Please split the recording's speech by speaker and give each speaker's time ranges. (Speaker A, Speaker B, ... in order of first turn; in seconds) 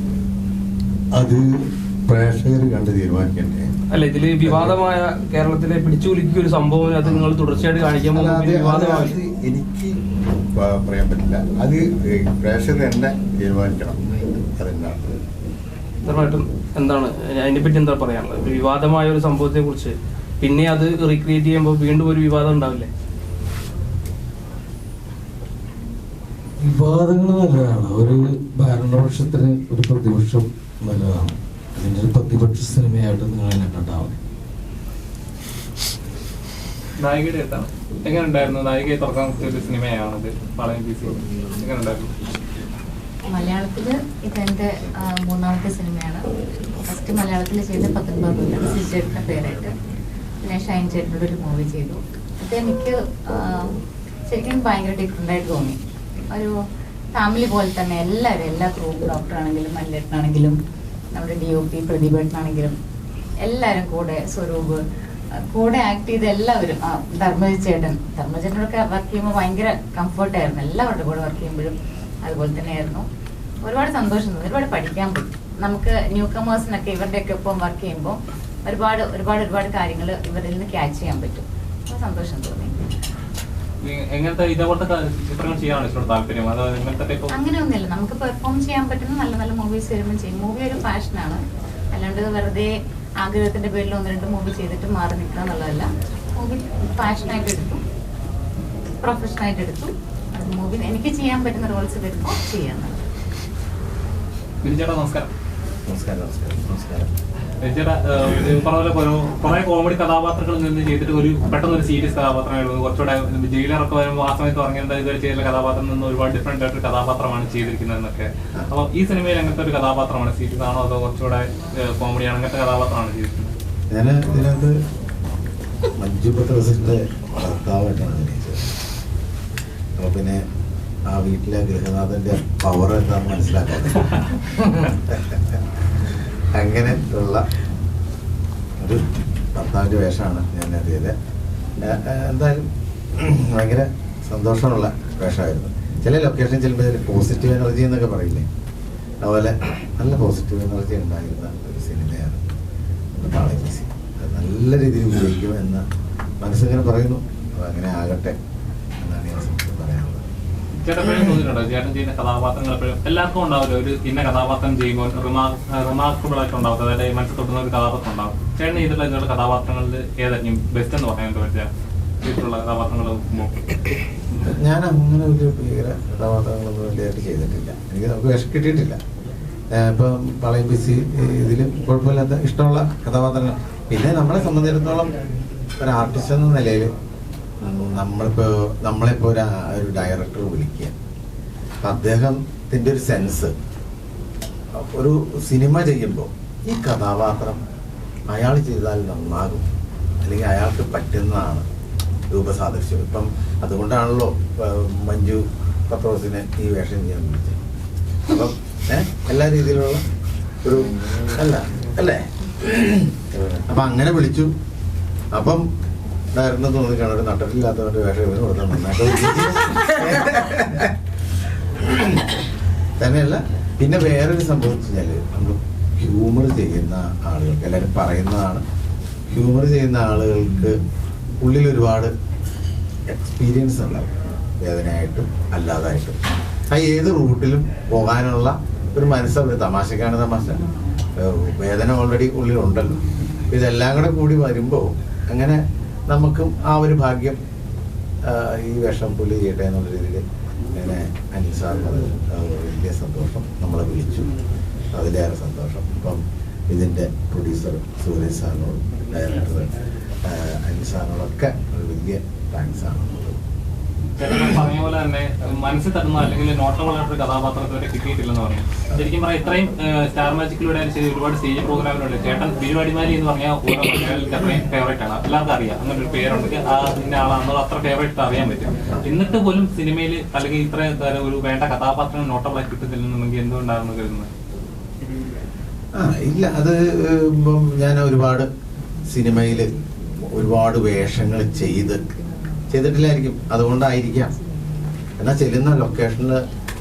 Speaker A: 1.1-1.4, 2.1-3.7, 4.5-4.7, 8.1-9.9, 10.5-15.0, 105.9-107.1, 123.9-124.8, 126.0-128.7, 130.0-130.4, 131.1-135.5, 136.5-137.4, 139.5-141.1, 141.8-142.6, 143.2-148.4, 149.2-152.5, 153.2-155.8, 156.4-158.4, 159.0-160.2, 174.4-179.0, 179.7-185.1, 185.8-186.9, 187.6-190.9, 191.8-193.5, 194.7-197.6, 198.3-199.7, 200.2-201.6, 202.3-207.6, 208.3-210.0, 210.6-214.5, 215.3-215.7, 216.3-220.9, 221.8-222.3, 223.0-228.6, 229.3-230.8, 231.4-232.1, 233.1-236.2, 236.7-240.6, 241.2-247.4, 248.2-250.2, 250.7-254.3, 254.9-263.4, 286.0-288.5, 289.1-289.7, 290.2-292.0, 292.7-294.3, 295.2-296.4
Speaker B: 3.9-9.1, 16.0-22.9
Speaker C: 26.6-34.2
Speaker D: 37.0-42.1, 83.8-87.3, 104.6-105.3, 107.6-123.5, 160.8-171.7, 172.2-173.6, 264.2-284.3
Speaker E: 43.3-46.2, 46.9-49.7, 50.4-53.7, 54.3-55.8, 57.1-60.5, 61.1-62.7, 63.4-64.8, 65.4-73.0, 73.6-82.8, 87.3-97.8, 99.0-103.0